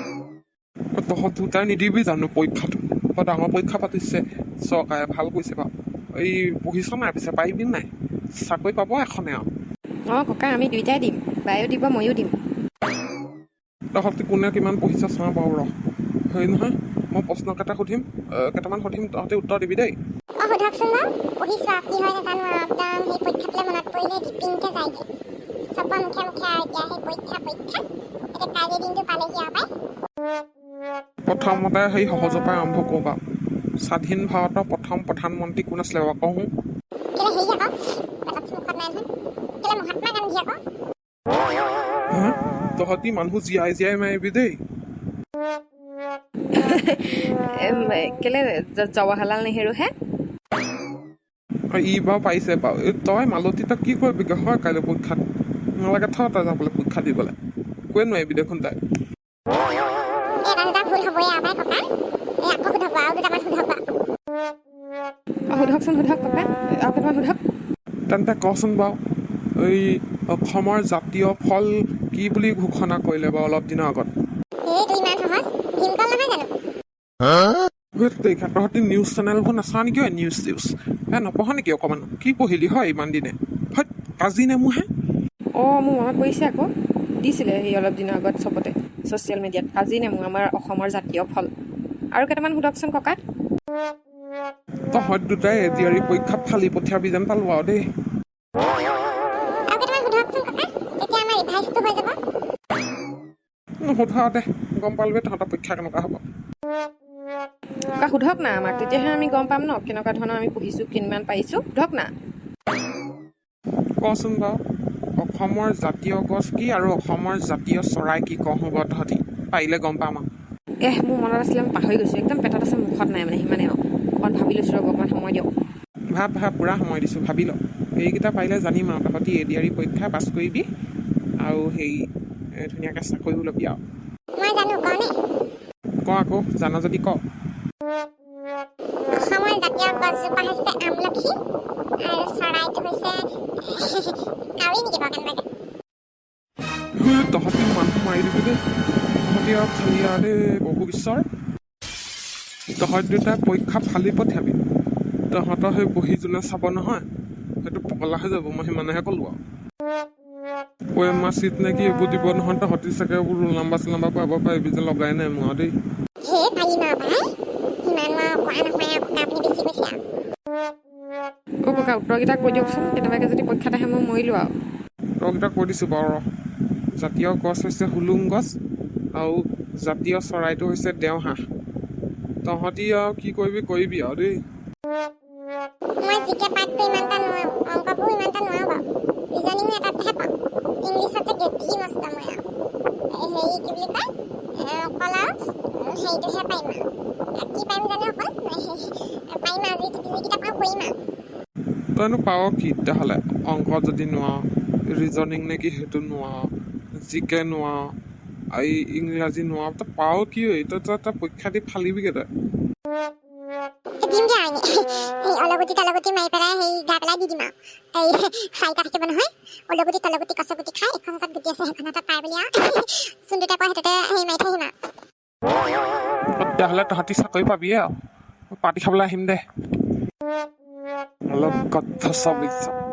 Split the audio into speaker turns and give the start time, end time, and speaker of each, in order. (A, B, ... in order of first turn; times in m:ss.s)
0:01.0-0:09.5 A
0:10.1-0:12.3 B
0:13.9-0:15.7 A
0:16.3-0:20.0 A
0:20.4-0:25.1 C
0:25.7-0:27.8 C
0:28.3-0:29.7 C
0:31.3-0:33.2 A
0:33.8-0:36.5 A
0:37.2-0:37.7 C
0:38.2-0:39.1 C
0:39.6-0:40.6 C
0:42.1-0:44.6 A
0:46.5-0:49.9 B
0:51.7-0:55.2 A
0:55.8-0:57.4 A
0:57.9-0:58.8 A
1:00.4-1:01.9 C
1:02.4-1:03.8 C
1:05.5-1:07.4 B
1:08.1-1:09.0 A
1:09.6-1:14.1 A
1:14.7-1:16.5 C
1:18.0-1:24.9 A
1:25.6-1:26.7 B
1:27.2-1:31.5 B
1:32.1-1:33.2 B
1:34.9-1:37.8 A
1:39.7-1:42.2 C
1:43.8-1:46.2 A
1:48.0-1:52.1 B
1:54.0-1:54.6 A
1:55.2-2:00.3 A
2:00.8-2:05.5 B
2:06.1-2:10.7 A
2:11.4-2:13.8 A
2:14.4-2:15.1 C
2:16.0-2:17.2 A
2:19.1-2:21.4 C
2:22.0-2:25.4 C
2:27.0-2:28.6 A
2:29.2-2:31.2 A
2:32.8-2:34.6 A
2:35.3-2:37.0 A
2:37.6-2:39.4 A
2:40.9-2:45.7 A
2:46.2-2:47.3 C
2:47.8-2:50.0 C
2:51.7-2:54.5 B
2:55.2-2:56.2 A
2:57.0-2:58.6 A
2:59.1-3:01.4 A
3:02.4-3:04.4 A
3:06.0-3:12.4 C
3:13.1-3:20.9 C
3:22.0-3:27.9 A
3:28.5-3:32.3 A
3:34.0-3:44.7 C
3:46.4-3:47.9 A
3:48.5-3:49.4 A
3:51.3-3:52.8 A